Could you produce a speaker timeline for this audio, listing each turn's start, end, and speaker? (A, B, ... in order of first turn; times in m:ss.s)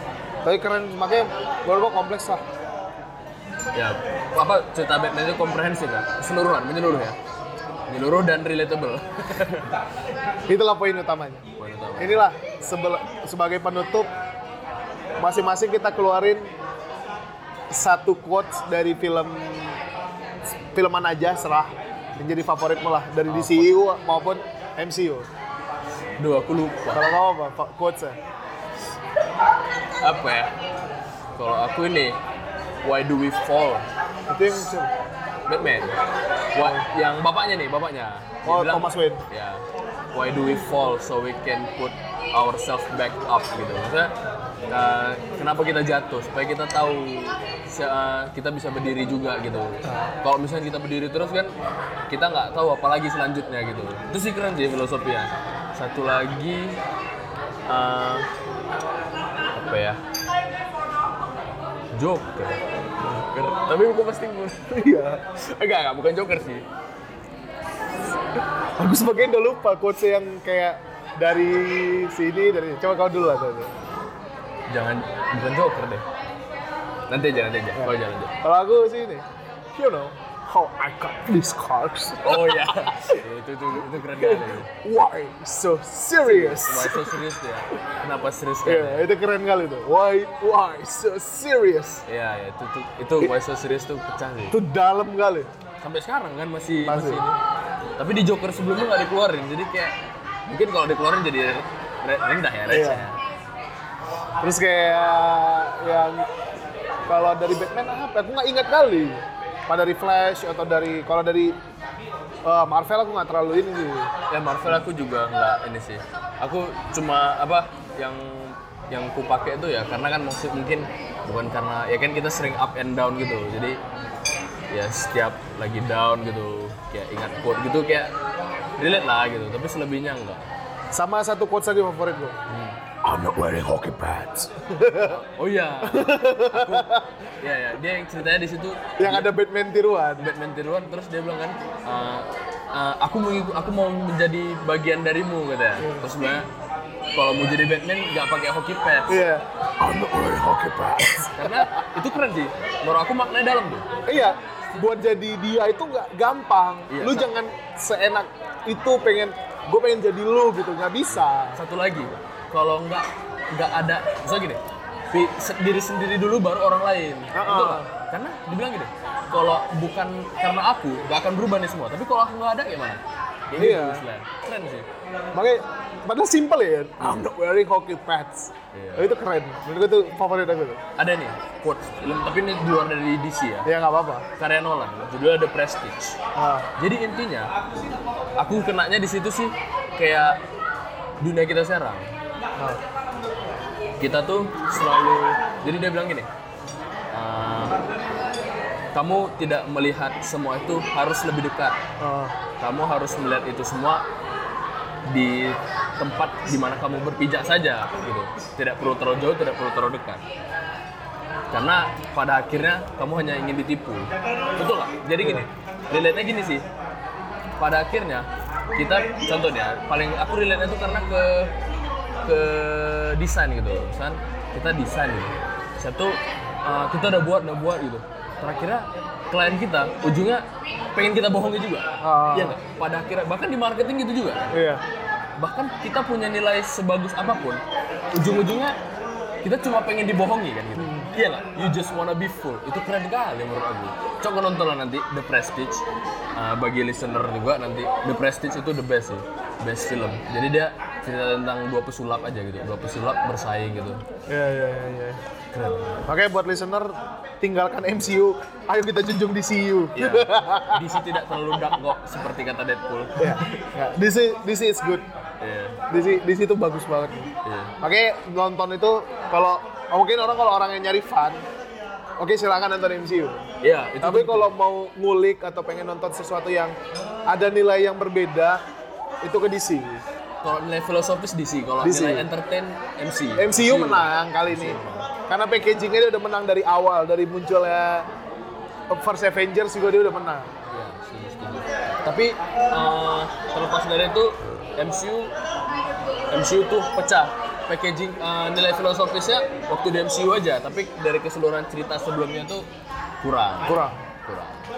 0:00.4-0:02.4 A
0:03.7-0:07.2 B
0:07.9-0:09.7 B
0:10.5-0:11.4 A
0:11.6-0:12.3 B
0:12.0-0:14.1 A
0:15.2-0:16.5 A
0:17.7-0:19.8 A
0:20.5-0:25.3 A
0:23.3-0:23.7 B
0:26.2-0:27.0 B
0:26.9-0:28.2 A
0:30.0-0:30.5 B
0:31.3-0:32.2 B
0:32.8-0:33.8 B
0:34.3-0:34.9 A
0:35.5-0:36.0 B
0:36.5-0:44.1 B
0:36.6-0:36.8 A
0:38.4-0:39.2 A
0:44.7-0:51.5 B
0:52.1-0:56.8 B
0:57.7-0:58.3 B
0:59.5-1:00.0 B
1:01.9-1:06.6 B
1:04.8-1:05.2 A
1:08.8-1:13.7 A
1:14.7-1:16.0 B
1:17.1-1:18.4 B
1:17.7-1:23.2 A
1:22.2-1:24.7 B
1:24.1-1:27.2 A
1:26.2-1:29.1 B
1:28.6-1:32.0 A
1:32.0-1:34.6 B
1:34.5-1:35.5 A
1:35.8-1:37.4 B
1:36.8-1:37.2 A
1:38.0-1:40.0 B
1:40.5-1:43.2 B
1:42.7-1:43.1 A
1:44.4-1:46.3 A
1:47.1-1:51.6 A
1:52.4-1:54.1 A
1:54.3-2:03.8 B
2:04.7-2:08.1 B
2:08.8-2:10.5 B
2:10.9-2:12.4 A
2:12.5-2:12.8 B
2:13.0-2:14.4 C
2:14.6-2:15.2 A
2:15.0-2:19.3 B
2:15.8-2:17.1 A
2:19.0-2:20.3 A
2:20.2-2:26.5 B
2:27.1-2:29.1 B
2:29.1-2:29.4 A
2:29.8-2:30.9 C
2:31.2-2:31.6 A
2:31.3-2:34.0 B
2:34.1-2:41.6 A
2:36.9-2:37.3 B
2:41.1-2:54.9 B
2:47.3-2:47.9 A
2:53.6-2:54.0 A
2:55.3-3:00.8 A
2:58.7-2:59.1 B
3:01.0-3:03.7 B
3:03.6-3:04.2 A
3:04.4-3:06.2 B
3:06.3-3:06.7 A
3:06.8-3:07.5 B
3:08.4-3:10.4 B
3:11.2-3:12.1 B
3:14.0-3:16.3 B
3:17.1-3:17.8 B
3:18.9-3:21.8 B
3:22.0-3:22.3 A
3:22.6-3:24.0 B
3:25.0-3:30.2 B
3:31.5-3:36.6 B
3:35.2-3:35.5 A
3:37.6-3:41.5 B
3:42.2-3:54.6 B
3:52.0-3:52.6 A
3:54.5-3:54.8 A
3:55.4-3:57.6 B
3:58.1-3:58.8 B
3:59.4-4:05.8 B
4:00.8-4:01.1 A
4:06.4-4:14.0 B
4:14.3-4:15.2 A
4:15.5-4:16.0 B
4:16.0-4:20.9 A
4:19.9-4:23.4 B
4:23.2-4:25.1 A
4:25.4-4:25.8 B
4:25.9-4:31.4 A
4:27.4-4:27.7 B
4:32.2-4:33.4 A
4:33.6-4:34.5 B
4:34.0-4:36.8 A
4:37.3-4:38.6 A
4:39.2-4:40.0 A
4:40.4-4:45.1 B
4:41.8-4:42.3 A
4:43.4-4:48.1 A
4:48.9-4:50.5 A
4:50.7-4:55.3 B
4:56.3-5:02.7 B
5:03.2-5:04.6 B
5:03.6-5:04.0 A